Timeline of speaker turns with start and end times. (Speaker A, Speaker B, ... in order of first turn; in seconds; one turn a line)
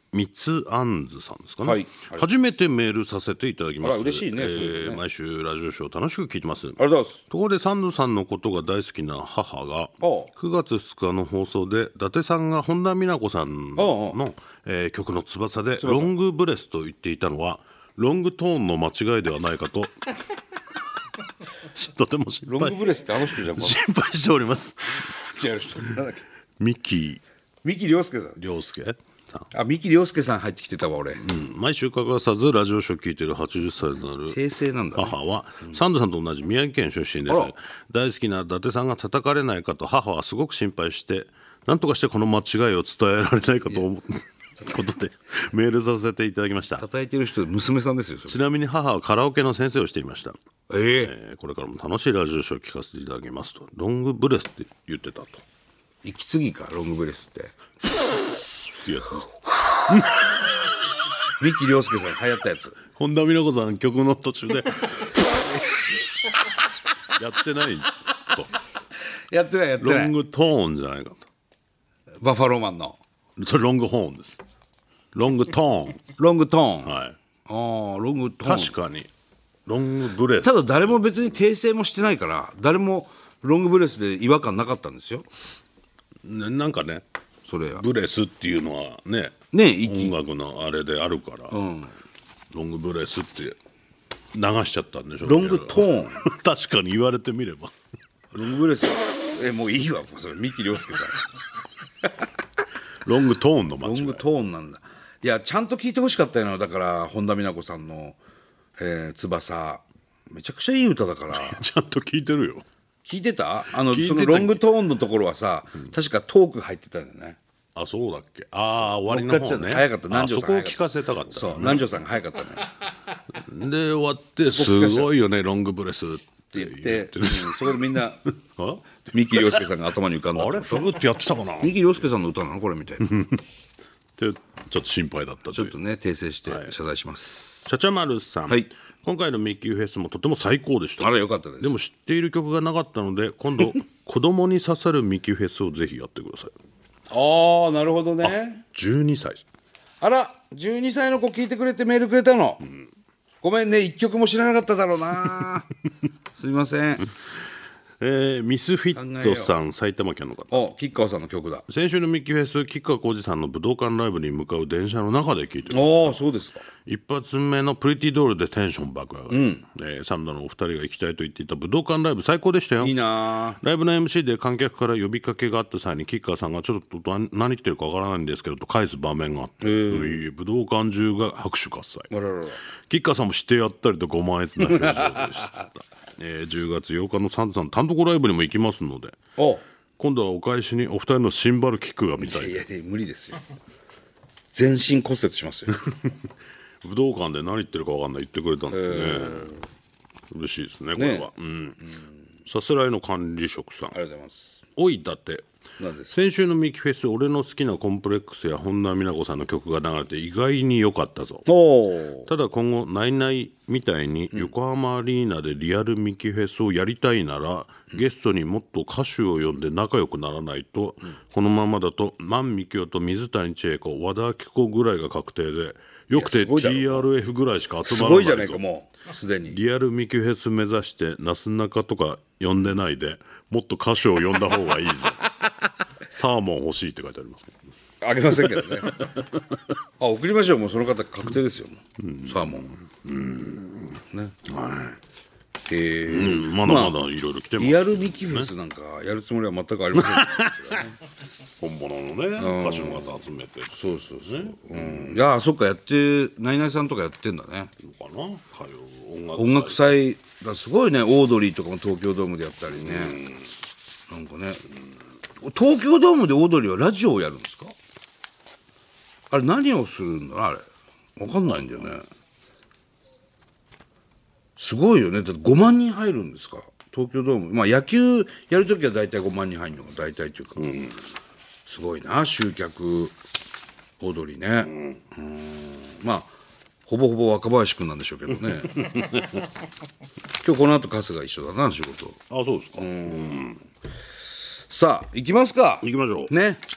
Speaker A: 0.1-20.1
Speaker B: 1.6-2.3
Speaker B: 3.8-5.0
Speaker B: 6.8-7.2
Speaker B: 10.0-10.3
Speaker B: 13.8-14.2
Speaker B: 15.8-16.1
Speaker A: 21.6-25.3
Speaker B: 22.5-23.8
Speaker B: 25.1-26.2
Speaker A: 26.6-27.2
Speaker B: 27.6-28.4
Speaker A: 28.4-29.5
Speaker B: 29.5-31.3
Speaker A: 31.2-34.4
Speaker B: 34.3-35.8
Speaker A: 34.9-46.9
Speaker B: 37.3-37.5
Speaker B: 46.8-48.4
Speaker A: 48.3-50.4
Speaker B: 50.7-51.1
Speaker A: 51.0-55.4
Speaker B: 56.0-57.5
Speaker A: 58.6-60.8
Speaker B: 61.4-62.8
Speaker A: 62.9-65.3
Speaker A: 67.1-68.5
Speaker B: 69.3-70.2
Speaker A: 69.8-71.3
Speaker B: 72.2-73.0
Speaker A: 73.4-74.4
Speaker A: 75.1-76.1
Speaker B: 76.2-78.8
Speaker A: 76.8-77.2
Speaker A: 78.4-79.1
Speaker A: 79.7-80.9
Speaker B: 80.4-85.3
Speaker A: 86.2-87.0
Speaker B: 87.5-87.8
Speaker A: 87.7-91.6
Speaker B: 89.5-90.1
Speaker B: 91.5-91.9
Speaker A: 92.5-93.6
Speaker A: 94.3-97.8
Speaker B: 95.2-96.3
Speaker B: 98.3-101.3
Speaker A: 103.0-104.2
Speaker B: 103.8-108.2
Speaker B: 108.8-111.6
Speaker A: 111.3-112.7
Speaker B: 113.1-117.4
Speaker A: 113.7-114.6
Speaker A: 117.8-121.9
Speaker B: 119.0-120.8
Speaker B: 121.3-122.7
Speaker A: 123.3-129.7
Speaker B: 124.4-125.1
Speaker B: 126.5-128.2
Speaker B: 129.0-130.9
Speaker A: 130.3-131.9
Speaker B: 131.6-133.2
Speaker A: 133.1-133.4
Speaker A: 134.2-135.8
Speaker B: 135.5-137.7
Speaker A: 136.5-136.7
Speaker A: 137.6-146.5
Speaker B: 141.0-141.8
Speaker B: 147.1-148.7
Speaker A: 148.3-149.4
Speaker B: 150.0-152.6
Speaker B: 153.4-155.7
Speaker B: 156.3-157.1
Speaker A: 158.0-160.6
Speaker B: 158.9-159.6
Speaker B: 160.5-161.7
Speaker A: 161.7-166.2
Speaker B: 165.7-166.7
Speaker A: 166.9-173.0
Speaker B: 169.3-169.7
Speaker B: 172.8-173.6
Speaker A: 173.6-182.1
Speaker B: 179.6-180.2
Speaker B: 182.1-182.6
Speaker A: 182.9-189.2
Speaker B: 184.6-185.6
Speaker B: 189.4-189.6
Speaker A: 190.0-192.7
Speaker B: 192.2-193.4
Speaker B: 194.5-195.8
Speaker A: 195.8-196.2
Speaker A: 196.8-199.6
Speaker B: 198.7-199.6
Speaker A: 200.3-201.8
Speaker B: 201.0-201.3
Speaker A: 202.5-203.9
Speaker B: 203.9-204.6
Speaker A: 204.8-205.4
Speaker B: 205.8-206.2
Speaker A: 206.1-211.5
Speaker B: 211.5-212.3
Speaker A: 212.3-228.6
Speaker B: 226.2-227.1
Speaker B: 227.8-229.6
Speaker A: 229.5-235.4
Speaker A: 236.0-237.7
Speaker B: 238.0-239.1
Speaker B: 240.0-242.8
Speaker A: 242.0-245.0
Speaker B: 244.1-244.4
Speaker B: 245.7-247.0
Speaker A: 246.1-248.5
Speaker B: 247.6-251.0
Speaker A: 249.9-250.8
Speaker A: 251.6-255.2
Speaker B: 252.4-253.2
Speaker B: 253.7-257.7
Speaker A: 257.8-259.9
Speaker B: 259.4-263.3
Speaker A: 262.7-263.5
Speaker B: 264.1-264.6
Speaker B: 265.4-267.8
Speaker B: 269.3-272.1
Speaker B: 274.6-280.6
Speaker A: 280.6-281.0
Speaker B: 281.7-283.2
Speaker B: 284.0-286.3
Speaker B: 286.9-288.9
Speaker A: 288.8-289.5
Speaker B: 290.4-292.2
Speaker A: 292.3-293.6
Speaker B: 292.8-293.6
Speaker B: 294.7-296.6
Speaker A: 295.8-296.3